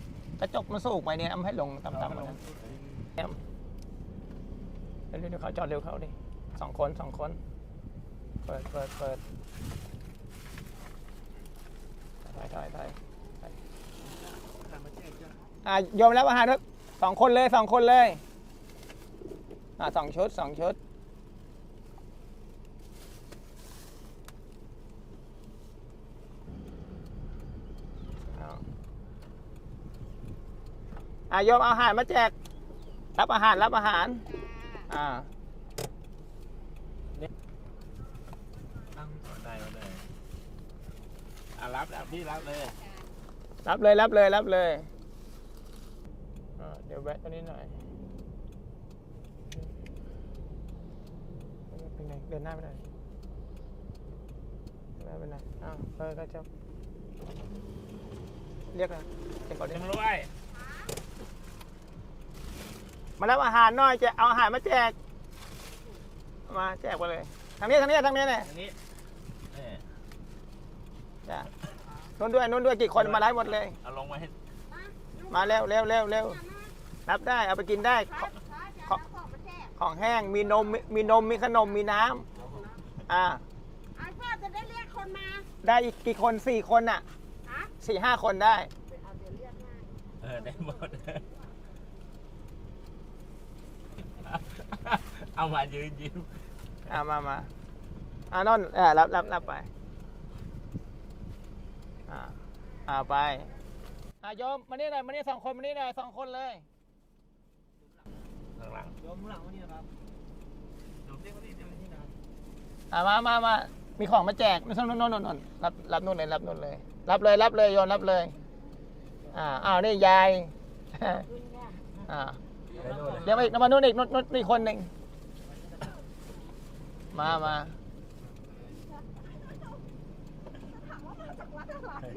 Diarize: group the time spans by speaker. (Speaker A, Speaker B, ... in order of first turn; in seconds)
Speaker A: 0.4-2.4, 5.1-7.4, 8.4-9.2, 12.2-13.5, 15.6-18.2, 19.8-20.8, 28.3-28.6, 31.3-32.3, 33.2-34.3, 34.9-35.3, 43.6-44.9, 46.6-47.8, 51.7-52.8, 55.0-56.5, 58.7-59.8, 63.2-65.0, 66.5-68.5, 72.2-73.8, 75.3-76.4, 77.1-78.3, 79.8-82.2, 83.1-83.4, 85.6-87.0, 87.8-88.7, 96.8-97.5, 98.3-99.7, 102.1-103.5, 104.2-106.6, 112.9-118.3, 119.3-121.3, 122.0-124.9, 127.1-127.8
Speaker B: 1.9-3.1, 14.6-15.3, 38.9-40.0, 41.5-42.8, 59.6-60.3, 68.5-68.8, 69.5-69.8, 73.0-74.3, 90.2-91.3, 94.1-96.3, 108.5-109.0, 111.2-112.0, 122.8-123.3
Speaker C: 34.3-34.8, 74.7-75.7, 76.2-76.7, 78.2-79.7, 84.0-85.5, 89.2-89.8, 130.9-132.1